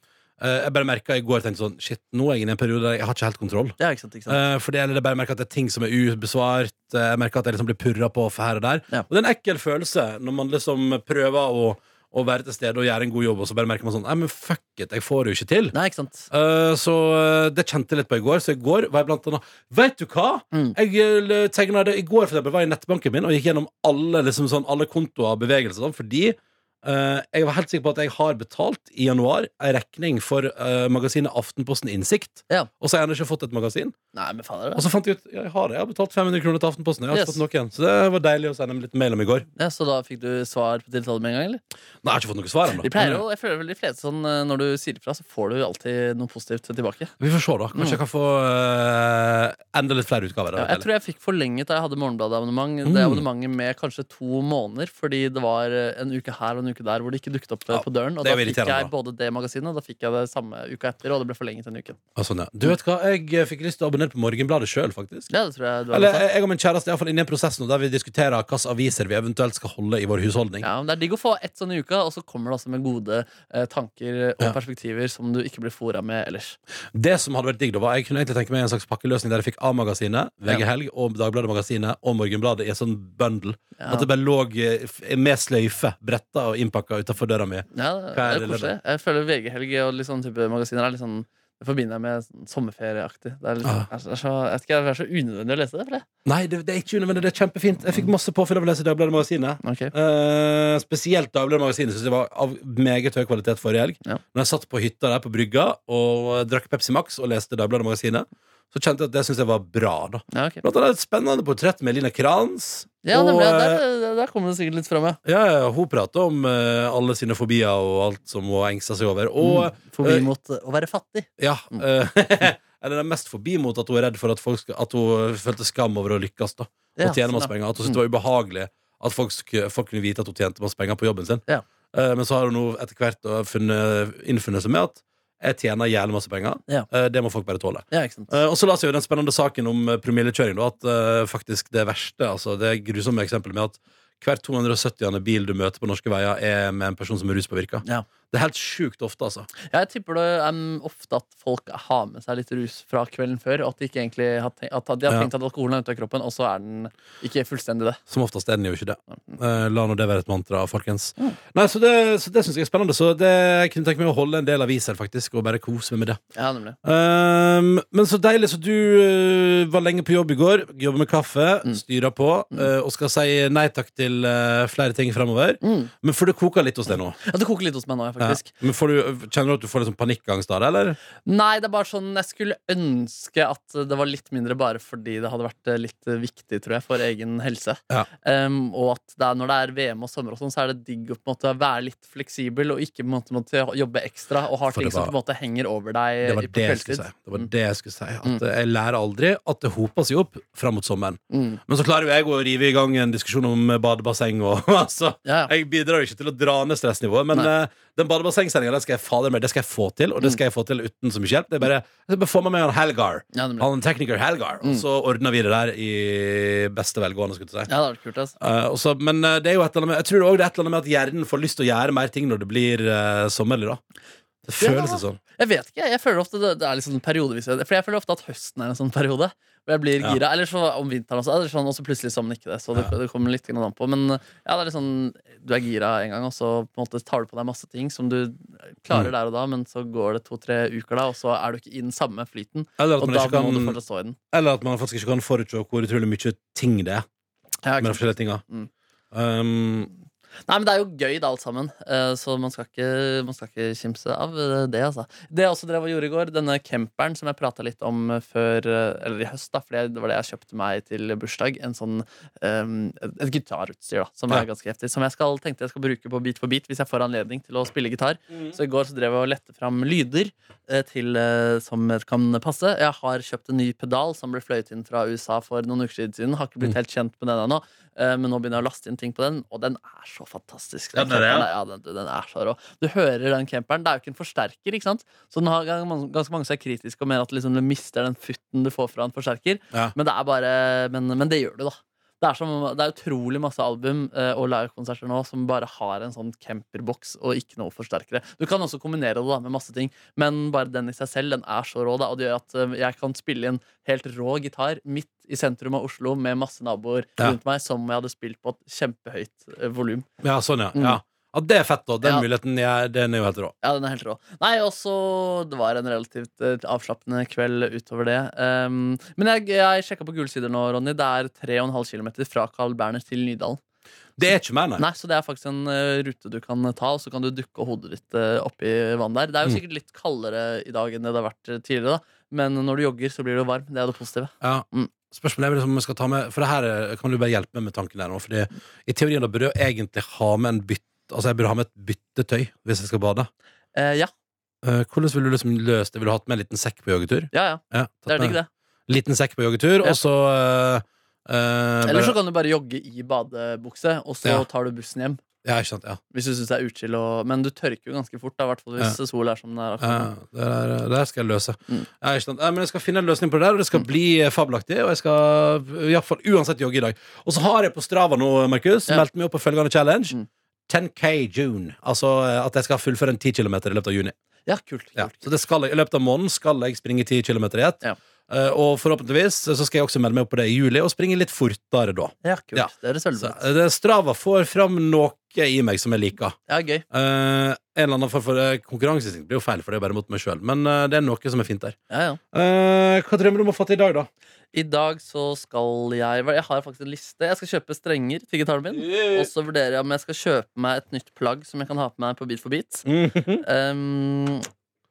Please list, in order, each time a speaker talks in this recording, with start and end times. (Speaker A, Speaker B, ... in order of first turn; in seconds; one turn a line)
Speaker A: 0.4-3.8
Speaker B: 3.8-4.4
Speaker A: 4.3-15.7
Speaker B: 15.7-16.3
Speaker A: 16.3-33.9
Speaker B: 34.1-34.9
Speaker A: 34.7-39.5
Speaker B: 37.1-37.4
Speaker B: 39.5-41.6
Speaker A: 42.0-43.2
Speaker B: 42.8-47.1
Speaker A: 47.2-50.9
Speaker B: 47.7-48.0
Speaker B: 50.5-62.0
Speaker A: 52.8-53.2
Speaker A: 57.7-58.9
Speaker A: 62.1-65.3
Speaker B: 65.3-66.2
Speaker A: 65.9-70.7
Speaker B: 70.6-76.6
Speaker A: 76.9-88.7
Speaker B: 83.8-84.1
Speaker B: 87.7-96.0
Speaker A: 93.6-93.9
Speaker A: 96.2-113.8
Speaker B: 99.6-99.9
Speaker B: 110.3-110.6
Speaker B: 113.0-115.2
Speaker A: 115.2-120.3
Speaker B: 119.4-121.8
Speaker A: 121.4-149.5
Speaker B: 127.0-128.0
Speaker B: 137.9-138.3
Speaker B: 149.7-158.0
Speaker A: 158.1-166.2
Speaker B: 166.3-166.8
Speaker A: 166.8-177.2
Speaker B: 175.6-175.9
Speaker B: 177.2-178.5
Speaker A: 178.2-181.0
Speaker B: 181.2-197.5
Speaker A: 194.6-195.1
Speaker A: 196.2-217.7
Speaker B: 201.3-201.6
Speaker B: 205.2-205.5
Speaker B: 213.3-213.7
Speaker B: 217.7-218.3
Speaker A: 218.4-223.8
Speaker A: 224.4-225.2
Speaker B: 224.6-244.2
Speaker A: 242.8-243.8
Speaker A: 244.3-247.0
Speaker B: 247.6-248.7
Speaker A: 247.8-248.4
Speaker A: 249.1-249.9
Speaker B: 250.4-310.1
Speaker A: 280.9-281.5
Speaker A: 310.2-313.5
Speaker B: 310.7-311.0
Speaker B: 312.0-312.3
Speaker B: 313.6-323.6
Speaker A: 324.2-324.9
Speaker B: 324.8-334.9
Speaker A: 334.4-343.3
Speaker B: 343.7-344.1
Speaker A: 344.6-352.2
Speaker B: 347.3-348.5
Speaker B: 351.8-355.2
Speaker A: 355.4-356.0
Speaker B: 356.1-360.1
Speaker A: 359.8-370.2
Speaker A: 370.7-374.1
Speaker B: 374.4-375.3
Speaker A: 374.9-386.4
Speaker B: 382.2-383.4
Speaker B: 386.5-386.8
Speaker A: 386.9-391.7
Speaker B: 391.9-392.2
Speaker A: 392.3-394.1
Speaker B: 394.5-404.5
Speaker A: 398.7-399.3
Speaker A: 402.9-403.4